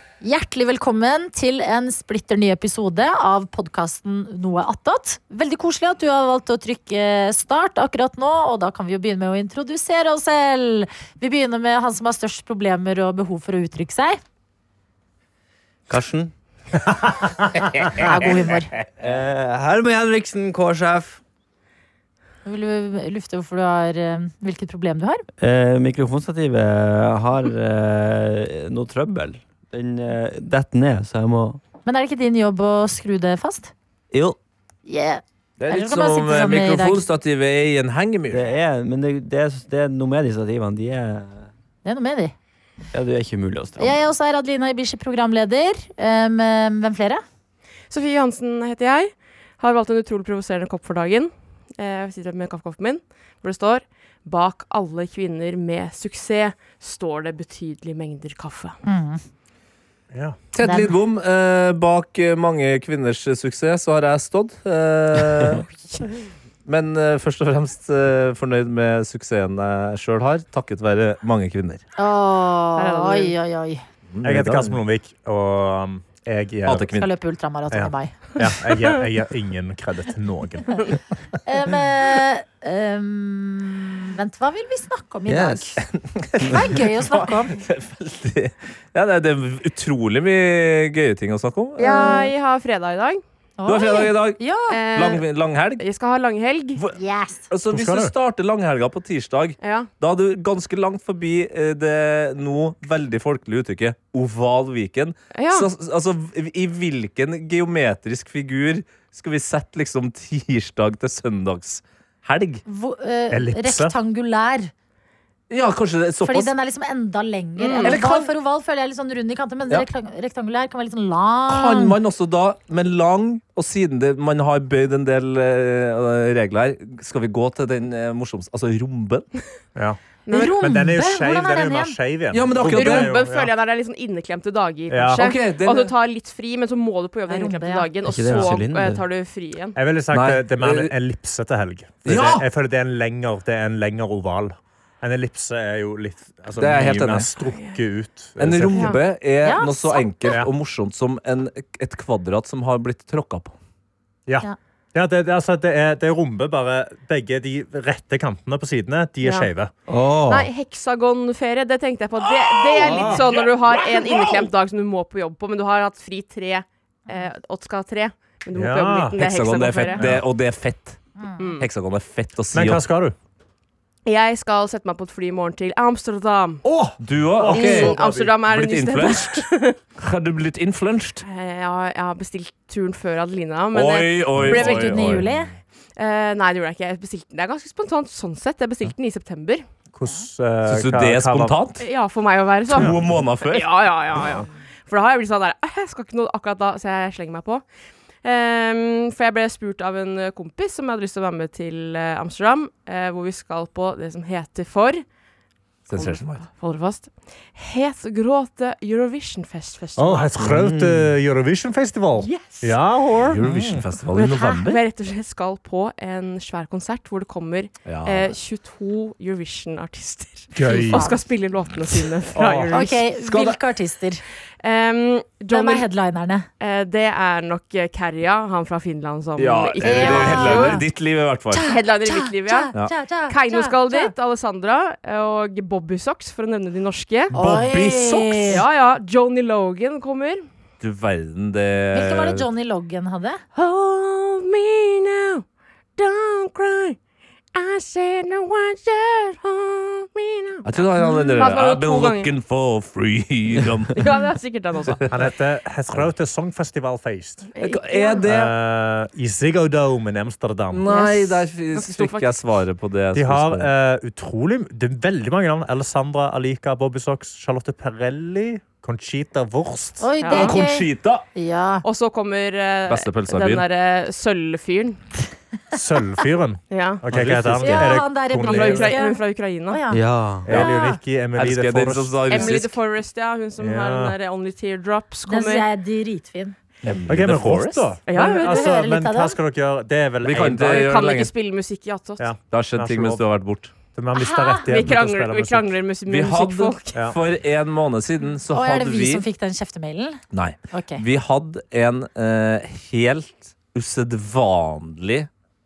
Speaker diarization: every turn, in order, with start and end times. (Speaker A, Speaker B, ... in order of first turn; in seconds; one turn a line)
Speaker A: 0.2-14.2
Speaker B: 15.9-16.3
Speaker A: 18.0-18.7
Speaker B: 19.0-21.2
Speaker A: 22.4-25.2
Speaker B: 25.4-31.6
Speaker A: 31.9-33.7
Speaker B: 34.1-34.4
Speaker A: 34.9-37.0
Speaker C: 35.6-38.5
Speaker B: 38.3-41.5
Speaker A: 41.9-42.3
Speaker B: 42.9-44.0
Speaker A: 43.8-47.2
Speaker D: 47.9-58.8
Speaker A: 58.9-59.2
Speaker E: 60.1-60.4
Speaker C: 60.5-65.7
Speaker A: 60.6-61.0
Speaker C: 66.7-71.8
Speaker A: 72.0-73.8
Speaker D: 72.8-73.3
Speaker C: 74.1-74.8
Speaker E: 74.2-76.9
Speaker C: 76.6-77.1
Speaker A: 77.0-78.1
Speaker E: 77.7-80.8
Speaker A: 81.4-85.8
Speaker B: 85.3-85.6
Speaker C: 85.8-92.2
Speaker A: 86.5-87.6
Speaker D: 91.8-93.2
Speaker A: 91.8-92.3
Speaker A: 93.6-94.8
Speaker C: 93.7-94.4
Speaker D: 94.7-95.2
Speaker C: 94.9-95.8
Speaker D: 95.8-96.8
Speaker A: 96.9-97.5
Speaker C: 97.5-112.6
Speaker E: 97.7-98.1
Speaker D: 99.6-99.9
Speaker D: 105.3-105.7
Speaker A: 112.7-114.7
Speaker E: 113.3-114.0
Speaker C: 115.5-116.5
Speaker A: 116.2-122.0
Speaker D: 117.6-118.0
Speaker C: 117.8-118.3
Speaker C: 121.5-129.3
Speaker E: 129.8-133.5
Speaker D: 130.3-130.6
Speaker A: 130.3-132.0
Speaker C: 132.3-133.1
Speaker D: 132.6-139.8
Speaker E: 134.9-135.3
Speaker C: 135.1-135.9
Speaker A: 137.3-137.9
Speaker B: 138.1-139.0
Speaker E: 139.8-148.9
Speaker C: 140.1-140.9
Speaker C: 142.1-142.4
Speaker C: 146.6-147.3
Speaker D: 147.5-147.8
Speaker C: 148.4-153.6
Speaker D: 148.7-149.0
Speaker A: 149.4-150.4
Speaker E: 154.3-159.7
Speaker D: 159.2-159.5
Speaker B: 159.9-160.5
Speaker D: 160.3-170.1
Speaker C: 162.2-164.5
Speaker E: 162.8-163.2
Speaker E: 168.5-169.2
Speaker C: 169.2-171.0
Speaker E: 169.9-170.2
Speaker A: 171.2-171.5
Speaker D: 171.4-171.7
Speaker C: 171.6-172.8
Speaker E: 172.5-173.2
Speaker D: 174.1-176.6
Speaker E: 176.6-178.4
Speaker C: 177.0-179.5
Speaker D: 177.5-179.8
Speaker C: 180.0-181.2
Speaker D: 181.2-185.1
Speaker C: 183.7-185.5
Speaker A: 184.5-185.5
Speaker D: 186.0-189.6
Speaker E: 189.9-191.6
Speaker C: 190.7-191.8
Speaker D: 191.8-197.6
Speaker C: 192.7-193.7
Speaker E: 192.7-193.1
Speaker D: 198.2-205.0
Speaker C: 205.9-206.4
Speaker D: 205.9-210.3
Speaker E: 210.0-213.8
Speaker C: 210.4-210.9
Speaker D: 212.2-212.8
Speaker C: 213.3-214.8
Speaker D: 214.1-223.0
Speaker A: 214.2-214.6
Speaker C: 217.9-218.3
Speaker E: 220.6-221.1
Speaker A: 220.7-221.2
Speaker E: 222.3-222.8
Speaker A: 222.7-224.2
Speaker C: 223.2-223.6
Speaker D: 224.6-225.9
Speaker A: 225.5-226.5
Speaker D: 226.6-230.8
Speaker C: 229.4-231.7
Speaker A: 229.8-230.8
Speaker A: 231.5-234.1
Speaker D: 231.7-232.7
Speaker D: 233.3-237.3
Speaker C: 237.3-238.6
Speaker A: 237.3-238.6
Speaker D: 238.5-240.4
Speaker C: 240.8-242.5
Speaker A: 241.9-243.4
Speaker D: 243.6-245.4
Speaker D: 246.0-247.0
Speaker D: 247.5-252.3
Speaker C: 250.7-254.0
Speaker D: 254.0-255.1
Speaker E: 255.1-257.4
Speaker D: 257.5-258.2
Speaker C: 257.6-258.5
Speaker E: 258.2-260.8
Speaker C: 260.7-263.7
Speaker A: 260.9-261.4
Speaker D: 261.7-262.4
Speaker E: 263.1-270.0
Speaker A: 270.0-271.8
Speaker D: 270.2-270.6
Speaker C: 270.3-271.2
Speaker D: 271.8-275.0
Speaker C: 272.9-273.6
Speaker E: 275.7-278.9
Speaker D: 276.7-277.0
Speaker C: 277.1-277.8
Speaker B: 277.1-277.4
Speaker A: 277.6-281.0
Speaker D: 278.3-279.8
Speaker B: 279.9-280.5
Speaker E: 280.4-282.6
Speaker C: 280.5-280.7
Speaker C: 281.3-282.8
Speaker D: 282.3-285.6
Speaker E: 283.6-284.1
Speaker A: 285.3-286.6
Speaker C: 286.8-287.9
Speaker E: 287.1-290.9
Speaker D: 288.1-288.5
Speaker A: 288.1-289.4
Speaker C: 290.2-291.3
Speaker D: 290.6-292.3
Speaker E: 292.2-293.2
Speaker C: 292.5-293.7
Speaker E: 293.9-295.7
Speaker A: 294.1-294.7
Speaker D: 294.7-297.0
Speaker C: 296.1-299.2
Speaker A: 298.5-300.2
Speaker C: 300.3-305.3
Speaker A: 300.7-301.0